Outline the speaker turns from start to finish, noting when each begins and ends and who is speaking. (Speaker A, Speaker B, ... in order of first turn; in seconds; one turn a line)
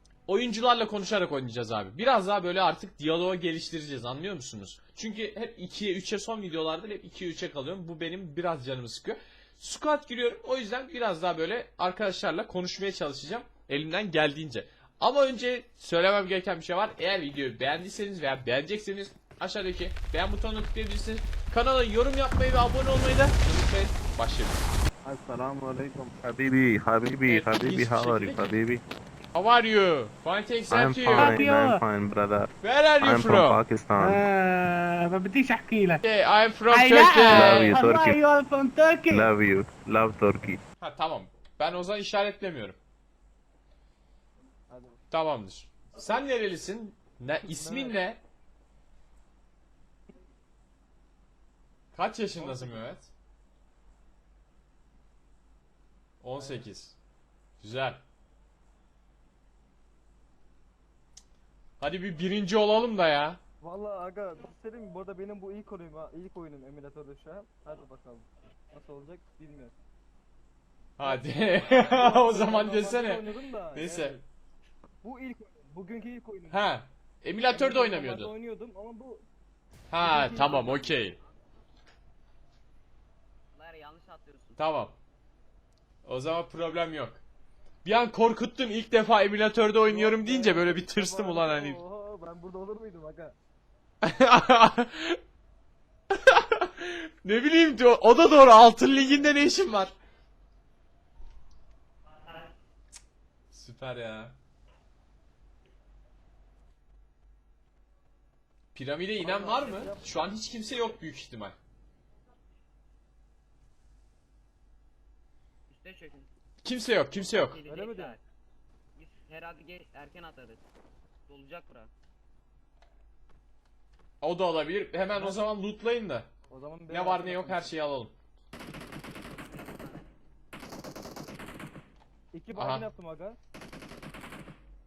Speaker A: 0.3-24.6
Speaker B: 25.0-28.8
Speaker A: 27.2-28.5
Speaker A: 29.3-31.5
Speaker B: 30.7-34.2
Speaker C: 31.1-31.8
Speaker A: 32.6-33.6
Speaker C: 34.0-36.0
Speaker A: 36.0-37.8
Speaker C: 36.7-39.3
Speaker B: 37.2-38.2
Speaker B: 39.1-40.6
Speaker A: 40.8-42.8
Speaker D: 44.7-45.0
Speaker A: 45.1-48.2
Speaker D: 47.5-48.0
Speaker A: 51.9-53.1
Speaker D: 52.3-53.0
Speaker A: 56.2-57.0
Speaker D: 56.3-56.7
Speaker A: 57.6-58.0
Speaker A: 61.8-63.4
Speaker D: 63.6-69.7
Speaker A: 71.0-74.2
Speaker D: 71.0-74.2
Speaker D: 75.0-76.6
Speaker A: 76.5-78.3
Speaker D: 77.5-79.2
Speaker A: 79.9-81.2
Speaker D: 80.0-81.0
Speaker E: 80.2-81.0
Speaker E: 83.5-84.6
Speaker A: 84.6-85.0
Speaker A: 86.0-87.2
Speaker A: 87.8-91.8
Speaker D: 89.8-93.3
Speaker A: 94.0-95.2
Speaker A: 96.1-99.9
Speaker D: 98.8-99.4
Speaker A: 103.5-104.3
Speaker A: 108.7-111.5
Speaker D: 109.2-110.2
Speaker E: 115.7-116.3
Speaker A: 116.6-117.6
Speaker E: 117.3-118.2
Speaker D: 117.7-118.2
Speaker E: 119.0-120.6
Speaker E: 121.3-121.9
Speaker A: 124.2-126.3
Speaker D: 125.1-125.4
Speaker D: 126.5-127.7
Speaker A: 126.9-128.1
Speaker E: 129.3-130.1
Speaker D: 132.3-133.4
Speaker A: 132.5-132.8